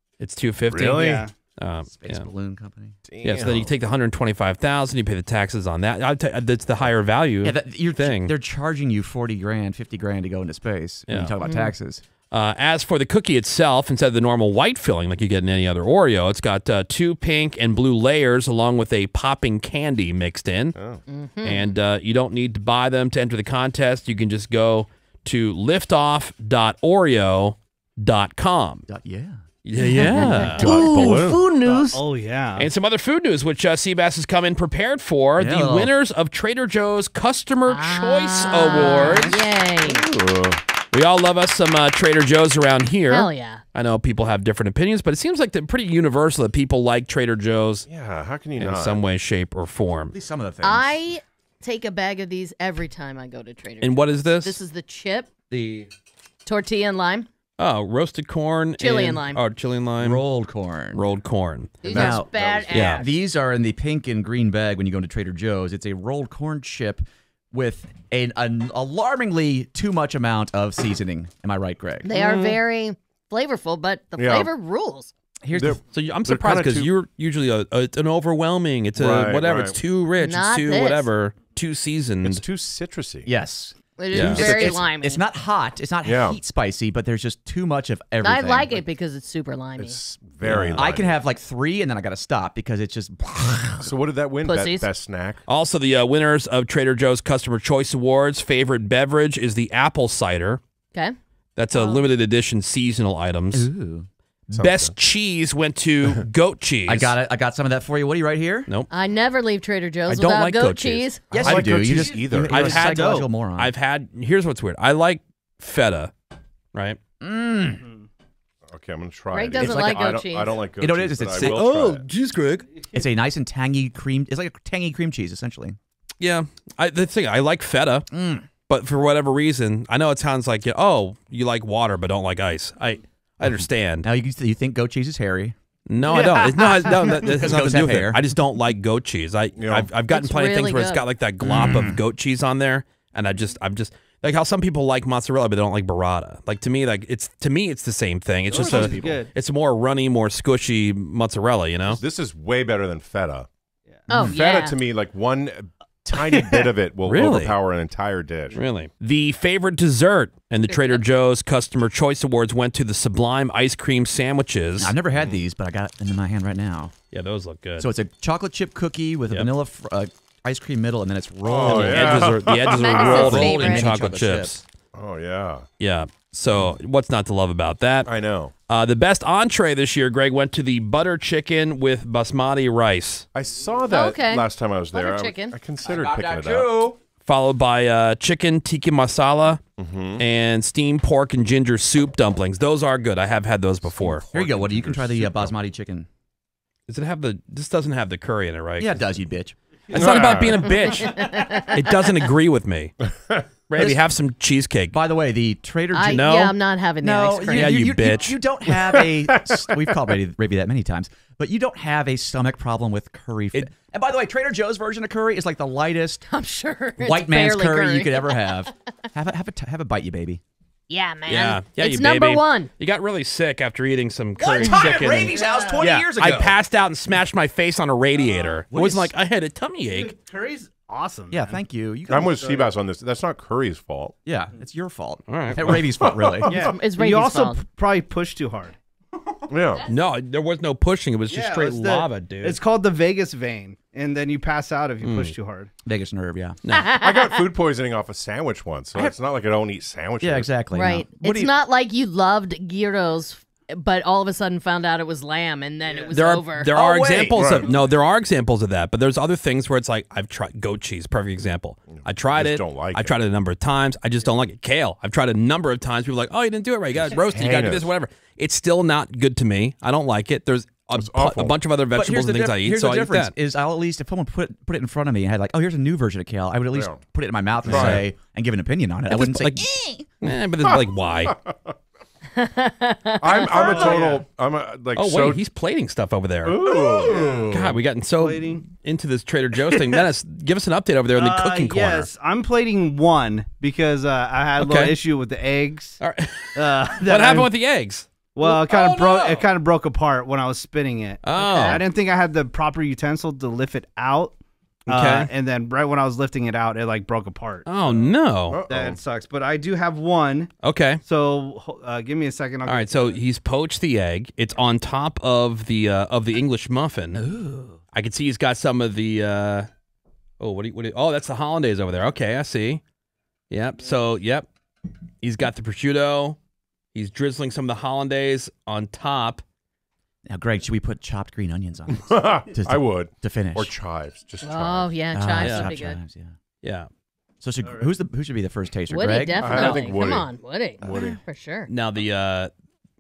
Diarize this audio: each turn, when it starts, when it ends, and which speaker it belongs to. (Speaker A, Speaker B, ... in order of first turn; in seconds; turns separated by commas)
Speaker A: 0.2-2.3, Speaker B: 0.7-1.2, Speaker C: 0.9-1.3, Speaker D: 1.9-3.0, Speaker B: 3.0-3.7, Speaker A: 3.2-8.3, Speaker D: 7.4-12.0, Speaker A: 11.1-11.3, Speaker E: 11.4-11.7, Speaker A: 12.3-20.8, Speaker B: 20.8-21.0, Speaker E: 21.1-21.7, Speaker A: 21.4-28.9, Speaker D: 28.9-31.4, Speaker A: 29.6-30.8, Speaker E: 30.1-30.6, Speaker B: 30.6-31.5, Speaker C: 30.6-32.7, Speaker A: 32.6-39.4, Speaker D: 35.4-35.9, Speaker E: 37.7-40.0, Speaker C: 38.8-39.4, Speaker B: 39.8-40.6, Speaker A: 40.9-47.9, Speaker E: 43.1-43.6, Speaker B: 47.9-49.0, Speaker A: 48.6-50.1, Speaker D: 50.1-50.9, Speaker E: 50.6-55.3, Speaker A: 53.8-54.6, Speaker D: 55.5-55.9, Speaker E: 56.5-57.3, Speaker A: 57.6-60.2, Speaker E: 58.8-59.4, Speaker D: 60.0-61.0, Speaker A: 60.9-61.9, Speaker E: 61.8-63.1, Speaker B: 61.9-63.0, Speaker D: 61.9-62.4, Speaker A: 62.7-63.0, Speaker D: 62.9-72.1, Speaker E: 72.0-75.1, Speaker B: 74.2-74.5, Speaker D: 75.4-75.8, Speaker B: 75.5-76.9, Speaker A: 75.9-82.4, Speaker B: 79.0-79.8, Speaker E: 80.2-81.1, Speaker B: 82.2-83.3, Speaker D: 83.3-88.8, Speaker E: 84.0-85.2, Speaker A: 84.1-84.6, Speaker B: 86.0-86.4, Speaker E: 88.2-90.0, Speaker B: 89.8-91.2, Speaker A: 90.4-90.9, Speaker D: 90.7-93.9, Speaker B: 93.8-95.4, Speaker E: 94.4-94.9, Speaker A: 95.5-100.6, Speaker A: 101.6-103.7, Speaker E: 101.7-102.0, Speaker D: 103.5-104.1, Speaker A: 104.5-107.2, Speaker B: 104.6-104.9, Speaker D: 106.9-108.7, Speaker E: 108.9-111.6, Speaker A: 110.1-111.1, Speaker B: 111.3-112.9, Speaker D: 111.3-113.7, Speaker A: 112.5-116.1, Speaker C: 112.7-113.3, Speaker A: 116.7-117.0, Speaker D: 117.2-117.8, Speaker C: 117.8-118.0, Speaker B: 118.7-122.1, Speaker E: 119.3-120.6, Speaker D: 119.6-120.1, Speaker D: 120.8-121.7, Speaker A: 121.3-122.7, Speaker C: 122.7-123.0, Speaker D: 122.9-125.8, Speaker A: 126.2-128.1, Speaker D: 128.1-128.5, Speaker A: 128.7-134.1, Speaker D: 133.5-135.6, Speaker A: 135.9-152.0, Speaker C: 136.1-137.3, Speaker D: 137.2-138.2, Speaker B: 139.6-139.9, Speaker E: 140.1-141.1, Speaker D: 141.4-142.0, Speaker B: 148.5-149.3, Speaker C: 148.5-149.3, Speaker B: 151.9-153.5, Speaker E: 154.1-154.8, Speaker B: 154.3-158.6, Speaker C: 156.1-156.7, Speaker A: 157.1-157.6, Speaker A: 158.6-164.9, Speaker E: 160.7-161.0, Speaker D: 164.8-166.9, Speaker B: 165.1-165.4, Speaker A: 167.1-167.9, Speaker D: 167.8-174.6, Speaker B: 171.4-173.3, Speaker A: 171.7-174.6, Speaker E: 172.7-173.9, Speaker B: 174.9-175.7, Speaker A: 175.8-178.1, Speaker B: 178.1-178.5, Speaker A: 178.7-183.3, Speaker B: 183.3-186.8, Speaker E: 183.9-185.6, Speaker D: 185.8-187.0, Speaker A: 187.2-189.6, Speaker B: 189.8-190.2, Speaker A: 190.2-194.2, Speaker B: 194.0-195.5, Speaker D: 194.3-196.1, Speaker A: 196.9-199.0, Speaker D: 198.8-199.6, Speaker A: 199.9-203.0, Speaker B: 199.9-200.8, Speaker E: 200.9-201.9, Speaker B: 203.1-203.4, Speaker A: 203.7-205.0, Speaker D: 203.8-204.1, Speaker D: 204.9-206.4, Speaker E: 205.9-208.0, Speaker A: 206.1-206.5, Speaker D: 207.0-216.2, Speaker A: 207.5-208.4, Speaker B: 208.7-209.9, Speaker E: 216.3-218.6, Speaker D: 217.0-220.4, Speaker E: 220.9-222.7, Speaker A: 221.3-225.4, Speaker D: 224.4-226.6, Speaker C: 224.6-226.1, Speaker A: 225.9-230.2, Speaker C: 228.2-228.6, Speaker D: 228.7-229.1, Speaker C: 229.9-231.6, Speaker D: 231.3-232.5, Speaker B: 232.1-234.2, Speaker C: 232.2-232.7, Speaker D: 234.2-236.6, Speaker A: 235.3-235.8, Speaker B: 235.7-236.5, Speaker C: 236.5-239.4, Speaker E: 236.6-237.6, Speaker B: 239.5-239.9, Speaker A: 239.9-242.6, Speaker C: 241.3-245.7, Speaker A: 245.0-245.3, Speaker D: 245.8-246.6, Speaker E: 246.7-247.4, Speaker B: 246.9-250.5, Speaker D: 250.2-251.5, Speaker E: 250.7-256.7, Speaker C: 255.9-256.1, Speaker A: 256.1-273.3, Speaker D: 256.7-257.5, Speaker B: 257.4-257.7, Speaker B: 261.9-263.1, Speaker B: 267.0-267.9, Speaker B: 270.9-271.6, Speaker D: 271.9-280.1, Speaker B: 276.7-277.0, Speaker B: 277.6-278.1, Speaker A: 277.7-278.1, Speaker A: 279.1-281.4, Speaker B: 280.6-281.7, Speaker E: 282.4-284.0, Speaker B: 283.2-285.4, Speaker C: 283.4-284.2, Speaker A: 284.9-286.8, Speaker B: 286.4-287.8, Speaker C: 286.6-287.6, Speaker A: 287.5-292.1, Speaker C: 288.2-288.6, Speaker C: 289.7-290.0, Speaker C: 291.1-296.0, Speaker A: 294.6-294.9, Speaker A: 296.0-299.4, Speaker C: 296.6-297.5, Speaker C: 298.3-304.4, Speaker A: 301.2-301.8, Speaker E: 301.5-301.8, Speaker A: 304.9-305.3, Speaker C: 304.9-308.1, Speaker A: 307.7-308.6, Speaker B: 308.5-309.0, Speaker C: 308.7-313.2, Speaker A: 310.6-311.0, Speaker A: 312.7-317.2, Speaker D: 317.3-317.7, Speaker A: 317.9-319.7, Speaker A: 320.4-322.8, Speaker A: 323.5-324.5, Speaker A: 325.2-326.4, Speaker A: 326.9-329.4, Speaker D: 330.3-333.7, Speaker B: 331.9-335.0, Speaker E: 334.4-336.0, Speaker D: 335.1-336.3, Speaker A: 335.4-335.7, Speaker A: 336.6-336.9, Speaker D: 337.4-339.9, Speaker C: 337.6-337.9, Speaker E: 338.9-341.7, Speaker B: 339.4-341.2, Speaker D: 340.8-341.2, Speaker A: 341.7-342.5